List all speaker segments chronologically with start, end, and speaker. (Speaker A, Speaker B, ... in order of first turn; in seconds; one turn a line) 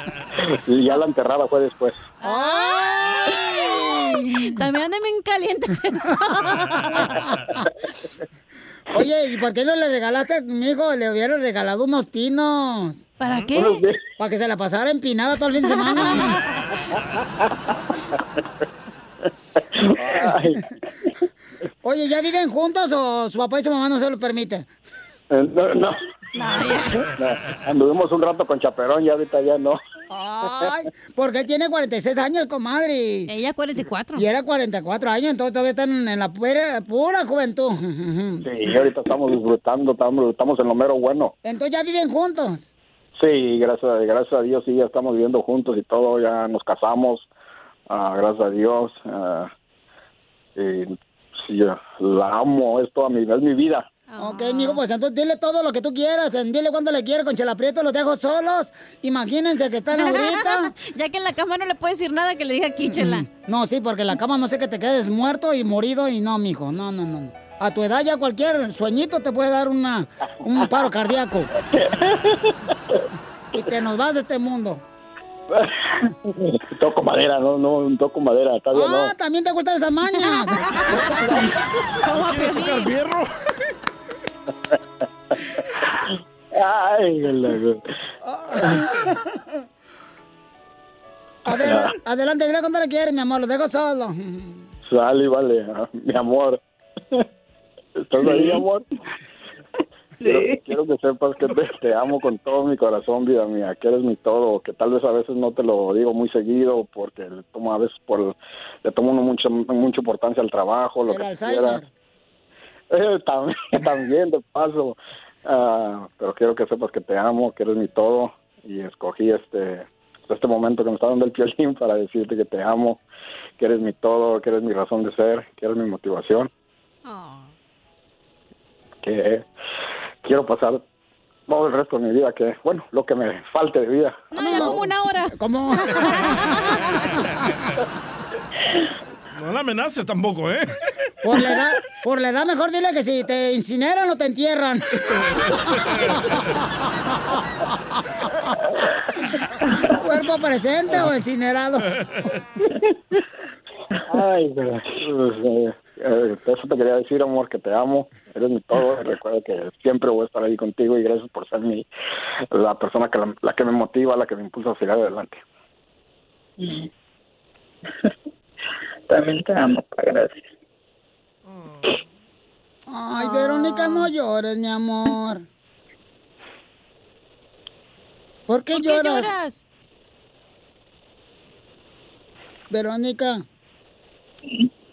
Speaker A: 0.7-2.0
Speaker B: 2.2-6.9
Speaker C: 2.2-4.6
Speaker C: 8.9-13.0
Speaker B: 13.2-13.8
Speaker A: 13.5-14.0
Speaker C: 14.2-16.4
Speaker B: 15.7-16.6
Speaker A: 19.8-20.6
Speaker C: 21.8-24.7
Speaker A: 25.3-26.0
Speaker B: 26.4-27.1
Speaker A: 27.2-29.8
Speaker C: 30.1-33.3
Speaker B: 33.3-34.2
Speaker C: 34.1-38.5
Speaker A: 38.4-41.3
Speaker C: 41.4-42.7
Speaker A: 43.2-47.3
Speaker A: 47.9-49.5
Speaker A: 50.5-53.9
Speaker B: 54.1-54.8
Speaker C: 54.2-60.7
Speaker B: 59.9-63.3
Speaker C: 62.8-71.5
Speaker A: 71.7-72.5
Speaker C: 73.5-74.8
Speaker A: 75.5-79.1
Speaker C: 78.7-80.8
Speaker A: 80.9-81.4
Speaker B: 82.0-82.9
Speaker D: 82.1-83.3
Speaker A: 86.5-87.8
Speaker C: 88.2-89.5
Speaker C: 91.5-94.7
Speaker A: 91.5-91.9
Speaker A: 94.9-96.6
Speaker A: 98.0-98.8
Speaker E: 98.3-98.6
Speaker E: 100.2-100.7
Speaker A: 100.2-111.8
Speaker C: 111.1-111.9
Speaker A: 112.9-123.0
Speaker A: 123.6-126.5
Speaker B: 127.0-127.5
Speaker A: 129.0-129.5
Speaker A: 130.2-130.8
Speaker A: 131.5-134.7
Speaker B: 134.3-136.8
Speaker C: 134.4-136.6
Speaker D: 139.3-140.7
Speaker C: 141.2-145.6
Speaker C: 149.9-151.9
Speaker A: 154.1-161.9
Speaker A: 162.5-165.4
Speaker E: 166.6-166.9
Speaker E: 169.1-170.4
Speaker D: 171.5-171.9
Speaker C: 172.9-175.4
Speaker B: 173.2-174.1
Speaker C: 178.5-179.3
Speaker B: 178.7-179.6
Speaker C: 182.7-183.4